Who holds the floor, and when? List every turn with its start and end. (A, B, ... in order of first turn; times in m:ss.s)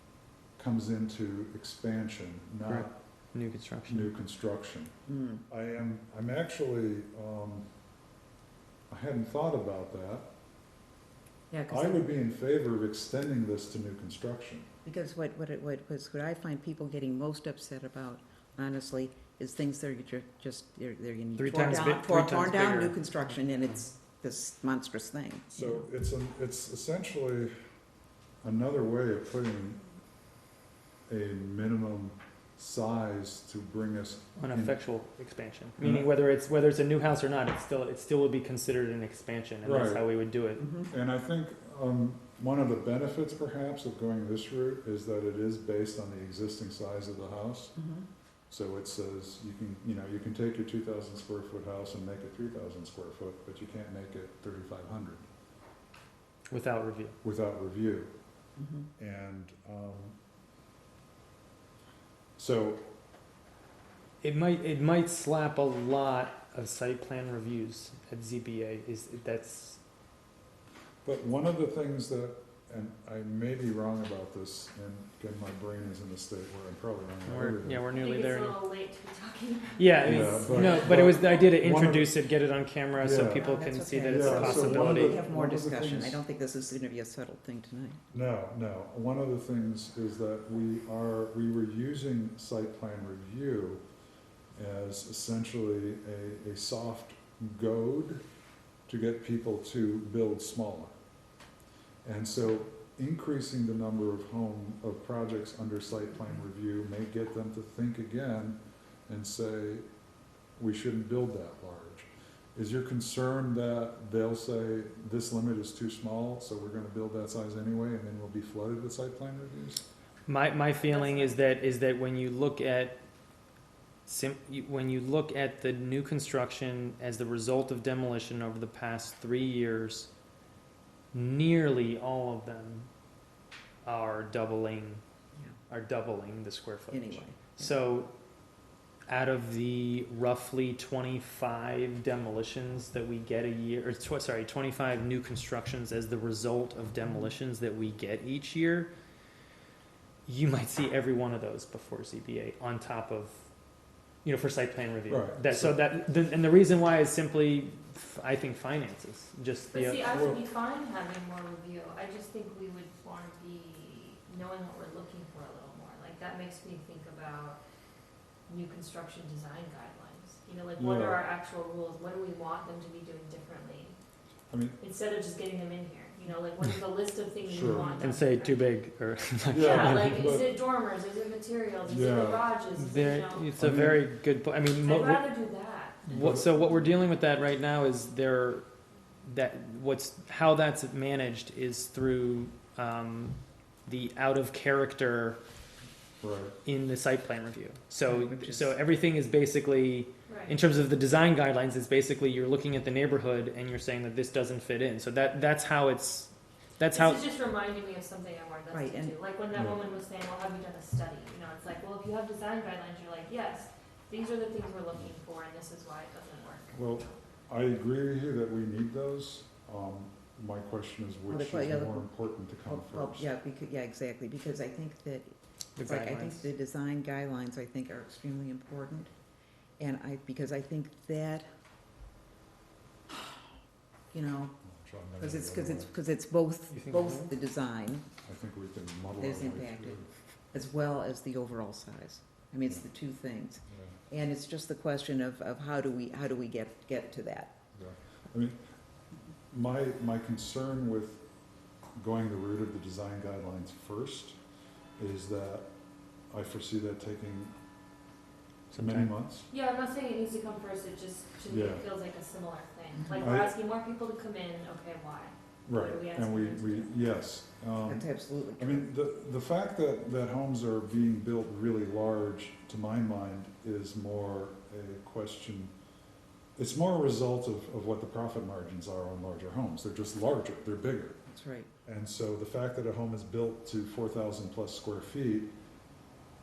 0:00.6-0:03.0 A
0:02.6-0:04.1 B
0:03.9-0:04.9 A
0:05.1-0:05.4 C
0:05.5-0:07.6 A
0:08.9-0:10.3 A
0:11.5-0:12.1 C
0:11.7-0:14.7 A
0:14.8-0:25.8 C
0:21.4-0:23.0 B
0:25.5-0:27.5 A
0:28.4-0:29.8 A
0:31.1-0:34.8 A
0:34.4-0:40.7 B
0:35.8-0:36.1 A
0:39.6-0:40.1 A
0:40.6-0:40.9 C
0:40.9-0:47.8 A
0:47.8-0:48.1 C
0:48.5-0:55.3 A
0:56.5-0:57.2 B
0:57.2-0:58.1 A
0:58.6-0:58.9 C
0:59.0-1:00.2 A
1:02.4-1:02.8 A
1:04.2-1:09.8 B
1:11.0-1:17.9 A
1:17.3-1:18.6 B
1:17.9-1:21.5 D
1:19.8-1:25.2 B
1:20.0-1:22.1 A
1:23.0-1:23.5 A
1:23.3-1:28.0 C
1:24.0-1:26.2 A
1:28.1-1:33.8 A
1:34.6-1:38.2 A
1:38.9-1:41.0 A
1:42.0-1:49.8 A
1:50.6-1:59.8 A
2:00.3-2:03.0 B
2:00.8-2:01.6 D
2:04.1-2:10.1 B
2:11.1-2:12.9 B
2:13.8-2:15.0 B
2:15.7-2:18.1 B
2:16.9-2:17.7 C
2:19.1-2:28.9 B
2:30.3-2:33.4 B
2:34.2-2:40.0 B
2:35.1-2:35.8 A
2:39.7-2:47.6 D
2:40.1-2:40.4 A
2:48.5-2:54.0 D
2:50.8-2:51.2 A
2:54.5-2:54.8 A
2:54.8-2:58.6 D
2:57.5-2:58.0 A
2:58.0-3:00.3 B
2:59.5-3:03.6 D
2:59.5-3:00.5 A
3:01.9-3:02.5 A
3:02.8-3:05.3 B
3:03.6-3:04.1 A
3:04.7-3:06.1 D
3:06.1-3:08.6 B
3:06.1-3:06.5 A
3:09.3-3:15.4 B
3:16.2-3:16.6 A
3:16.6-3:27.2 B
3:18.1-3:18.7 C
3:20.3-3:20.6 D
3:26.9-3:37.0 D
3:28.7-3:29.2 C
3:29.5-3:29.8 A
3:36.7-3:43.3 A
3:41.3-3:42.1 C
3:42.6-3:49.1 C
3:45.8-3:46.5 B
3:49.8-3:51.5 C
3:54.1-3:54.6 C
3:54.6-3:55.9 A
3:55.2-3:58.1 C
3:56.7-3:57.3 B
3:58.2-4:00.1 A
3:59.2-4:00.0 C
4:00.5-4:07.6 C
4:03.7-4:04.0 A
4:07.7-4:08.6 A
4:09.5-4:11.3 A
4:12.0-4:14.4 A
4:15.0-4:15.7 A
4:16.3-4:17.5 A
4:18.7-4:19.1 B
4:18.7-4:19.5 A
4:19.5-4:26.9 D
4:21.5-4:21.8 A
4:23.2-4:23.5 A
4:25.7-4:28.1 A
4:27.8-4:28.9 C
4:28.6-4:35.7 A
4:36.6-4:41.2 A
4:41.3-4:41.7 C
4:41.8-4:45.5 A